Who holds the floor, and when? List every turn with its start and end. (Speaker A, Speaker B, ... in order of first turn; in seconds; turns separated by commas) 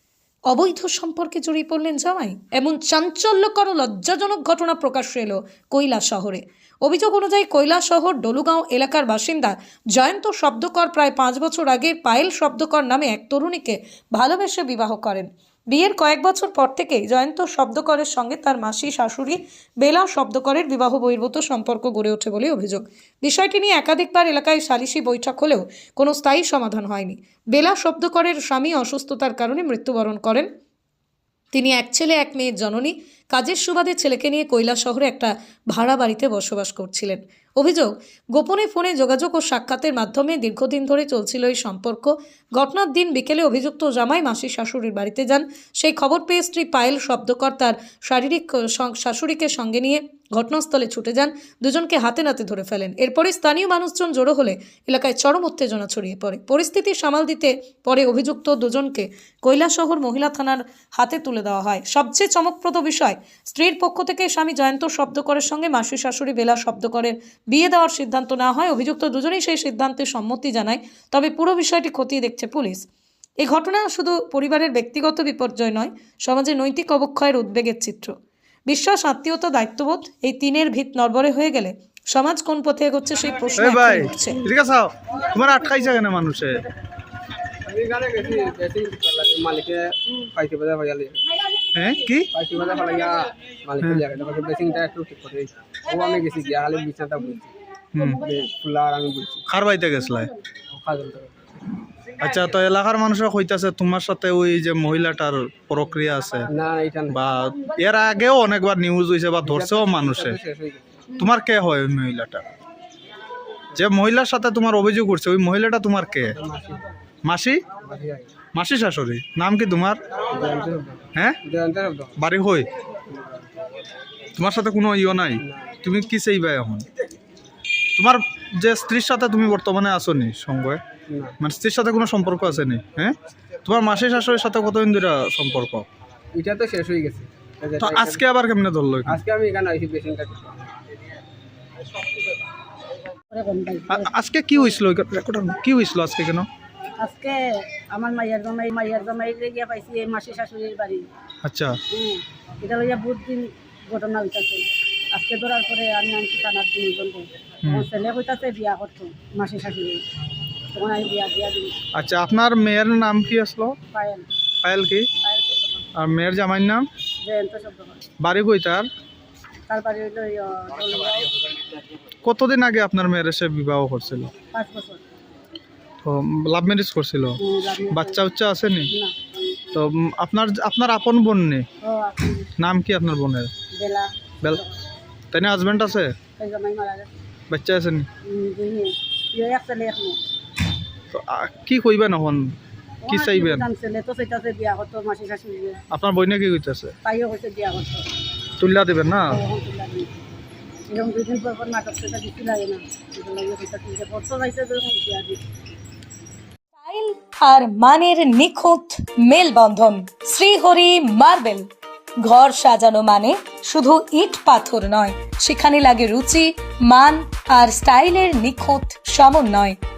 Speaker A: 0.5-30.5, Speaker A: 31.5-72.9, Speaker A: 73.4-78.2, Speaker A: 78.7-84.4, Speaker B: 83.5-86.6, Speaker C: 87.6-91.2, Speaker B: 91.7-92.3, Speaker C: 92.3-97.5, Speaker B: 97.9-98.2, Speaker C: 98.2-99.4, Speaker B: 99.5-100.3, Speaker C: 100.7-101.3, Speaker B: 102.2-106.5, Speaker C: 106.5-107.2, Speaker B: 107.1-110.4, Speaker C: 109.4-110.8, Speaker B: 111.2-112.5, Speaker B: 113.7-116.4, Speaker C: 116.3-116.8, Speaker B: 117.2-117.6, Speaker C: 117.8-118.3, Speaker B: 118.5-120.0, Speaker C: 120.3-122.2, Speaker B: 121.1-121.4, Speaker B: 122.2-122.7, Speaker C: 123.1-123.5, Speaker B: 124.4-126.8, Speaker C: 125.4-125.8, Speaker B: 128.0-130.8, Speaker C: 131.1-131.4, Speaker B: 131.4-135.9, Speaker C: 136.3-138.2, Speaker B: 137.8-139.2, Speaker C: 139.1-140.7, Speaker D: 143.3-144.1, Speaker B: 143.9-146.5, Speaker D: 147.0-147.4, Speaker D: 147.9-151.0, Speaker B: 151.4-151.8, Speaker D: 151.9-160.0, Speaker D: 160.7-161.8, Speaker B: 161.9-163.8, Speaker D: 163.9-164.3, Speaker B: 164.6-165.1, Speaker D: 165.2-165.8, Speaker B: 165.9-166.9, Speaker D: 167.2-168.0, Speaker B: 168.2-168.9, Speaker D: 169.7-171.3, Speaker B: 172.2-174.3, Speaker D: 174.5-175.0, Speaker B: 176.0-177.4, Speaker D: 177.4-178.2, Speaker B: 177.9-178.9, Speaker B: 179.7-181.7, Speaker D: 181.8-182.5, Speaker B: 182.6-183.5, Speaker D: 183.7-184.7, Speaker B: 185.3-186.1, Speaker D: 186.4-187.1, Speaker B: 187.5-188.1, Speaker D: 188.2-190.2, Speaker B: 191.1-192.5, Speaker D: 193.0-195.8, Speaker B: 193.1-193.7, Speaker B: 195.9-196.9, Speaker D: 197.0-198.0, Speaker B: 198.6-199.4, Speaker D: 199.3-200.1, Speaker D: 200.9-205.4, Speaker A: 206.8-211.7, Speaker A: 212.2-219.8